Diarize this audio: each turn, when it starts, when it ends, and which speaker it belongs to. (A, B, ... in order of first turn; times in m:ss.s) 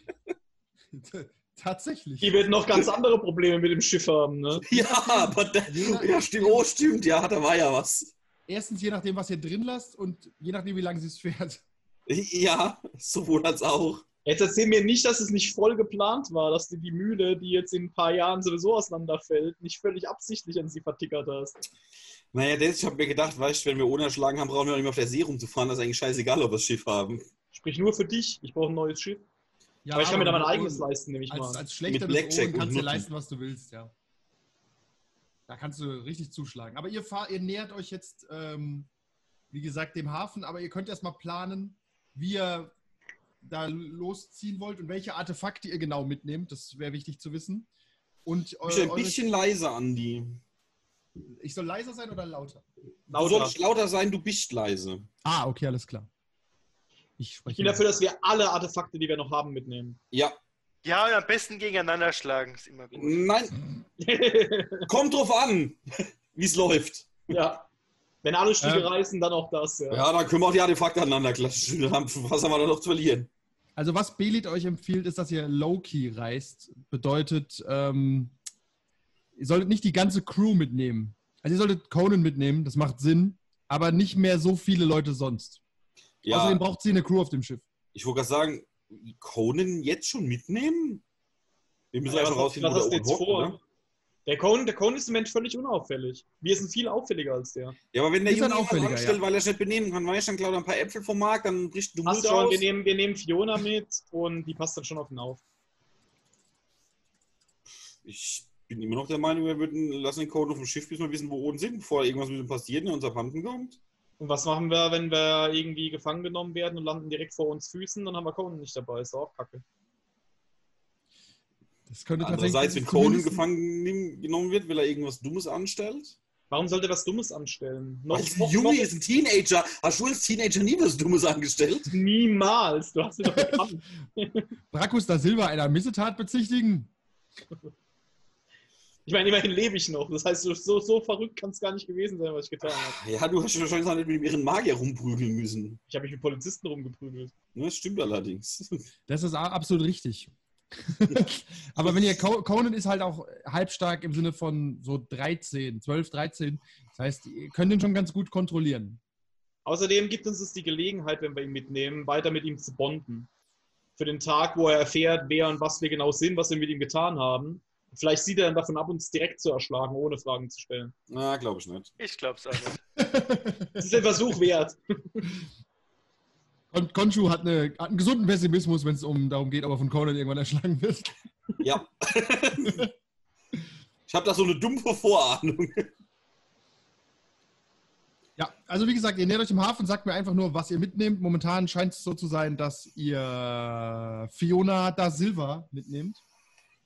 0:00.9-0:02.5 A
0:02.2-0:04.7 B
0:04.6-0:08.1 C
0:05.7-0:06.6 A
0:08.5-0:11.6 A
0:12.1-0:14.0 C
0:14.3-0:21.6 B
0:22.3-0:27.3 C
0:27.5-0:29.2 B
0:29.8-0:33.9 A
0:29.9-0:31.6 B
0:31.9-0:33.1 C
0:35.5-0:38.9 A
0:39.5-0:42.7 A
0:43.4-0:47.7 A
0:48.3-0:49.2 A
0:48.6-0:50.4 C
0:51.3-0:52.6 A
0:53.1-0:53.6 B
0:53.1-0:55.1 C
0:55.2-0:56.1 A
0:57.2-0:57.8 A
0:57.5-1:00.0 B
1:00.8-1:03.2 D
1:03.0-1:03.6 C
1:04.0-1:04.9 B
1:04.9-1:07.3 C
1:07.3-1:07.7 B
1:08.2-1:10.1 B
1:08.6-1:08.9 A
1:09.9-1:13.3 C
1:13.8-1:18.3 A
1:19.4-1:25.6 A
1:26.2-1:26.6 C
1:26.3-1:27.6 A
1:27.9-1:31.0 C
1:31.9-1:33.6 C
1:32.1-1:33.6 B
1:34.3-1:37.8 B
1:37.9-1:42.6 C
1:38.2-1:39.2 A
1:42.0-1:45.4 B
1:48.0-1:53.8 C
1:54.2-1:59.6 B
2:01.9-2:03.5 A
2:02.2-2:06.2 C
2:06.5-2:09.0 B
2:08.1-2:11.9 C
2:11.9-2:14.5 B
2:13.3-2:13.7 A
2:14.7-2:16.9 A
2:19.1-2:23.0 B
2:22.9-2:25.8 C
2:25.9-2:27.3 B
2:27.6-2:28.9 C
2:29.1-2:39.0 A
2:39.6-2:43.3 B
2:44.0-2:50.9 B
2:51.1-2:51.9 C
2:52.0-2:52.8 D
2:53.0-2:53.7 A
2:53.8-2:55.2 B
2:56.7-3:01.1 A
3:01.6-3:02.9 C
3:04.1-3:05.9 C
3:08.4-3:16.2 A